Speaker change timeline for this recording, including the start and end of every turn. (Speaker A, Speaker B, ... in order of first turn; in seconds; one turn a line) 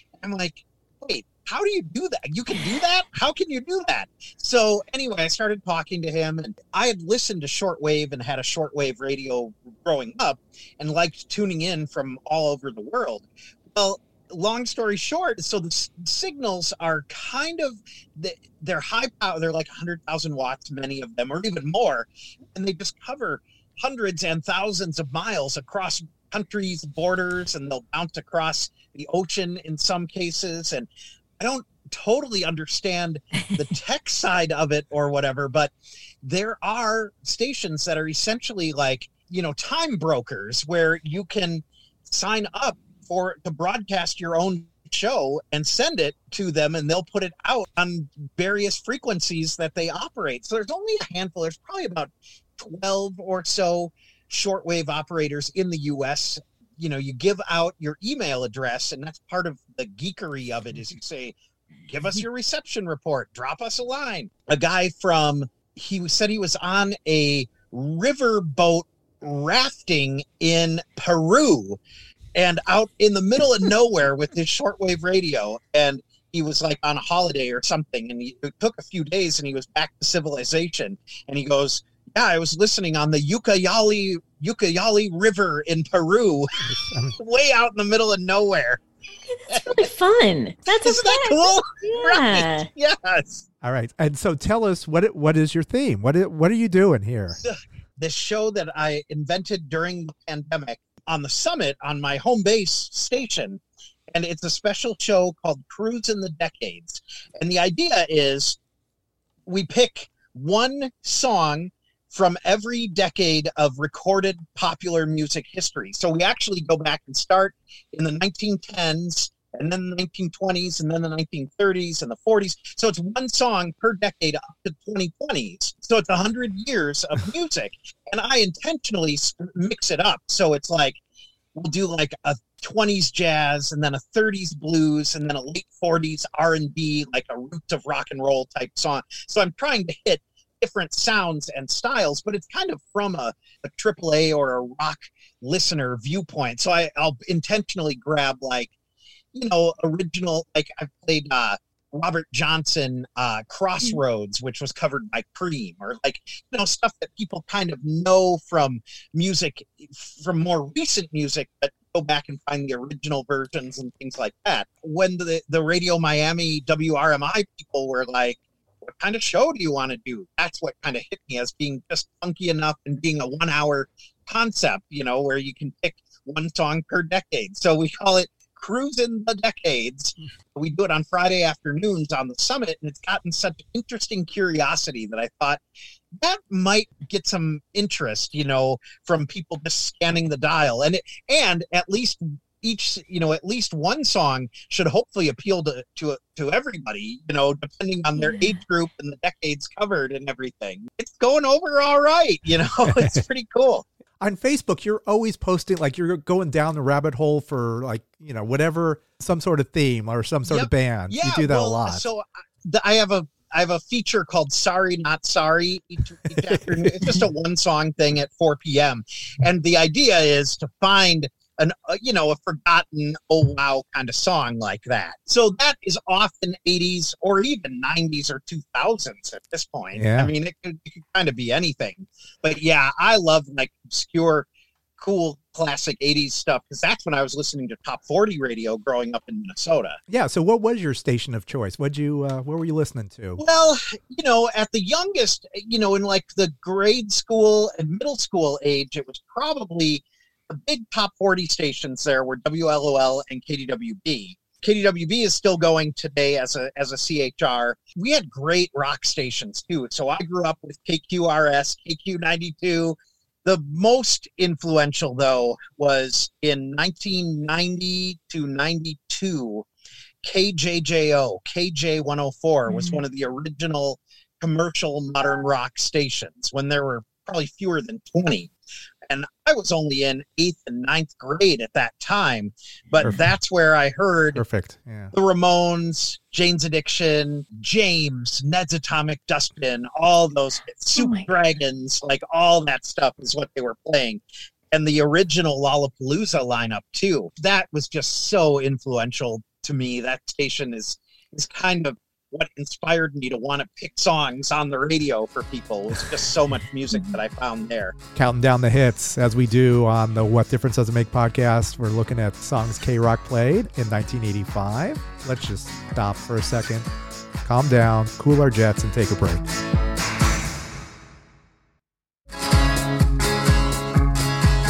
Speaker A: 0.2-61.4
Speaker A: 61.9-71.8
Speaker A: 72.3-86.5
Speaker B: 86.6-87.2
Speaker A: 87.2-88.8
Speaker A: 89.5-89.8
Speaker C: 89.5-92.7
Speaker A: 90.8-93.4
Speaker B: 93.6-97.4
Speaker A: 97.4-103.6
Speaker A: 104.1-108.6
Speaker A: 109.5-131.0
Speaker A: 131.5-148.7
Speaker A: 149.3-185.6
Speaker A: 186.2-203.8
Speaker C: 198.2-198.5
Speaker B: 202.8-203.2
Speaker B: 204.2-212.1
Speaker A: 210.5-240.0
Speaker B: 216.4-217.2
Speaker B: 229.9-230.3
Speaker B: 240.1-243.4
Speaker A: 243.4-269.6
Speaker A: 270.2-278.5
Speaker C: 272.7-273.0
Speaker A: 279.1-284.4
Speaker B: 283.0-283.3
Speaker B: 284.3-285.1
Speaker A: 285.1-307.9
Speaker C: 290.9-291.3
Speaker B: 308.1-316.9
Speaker B: 317.4-319.5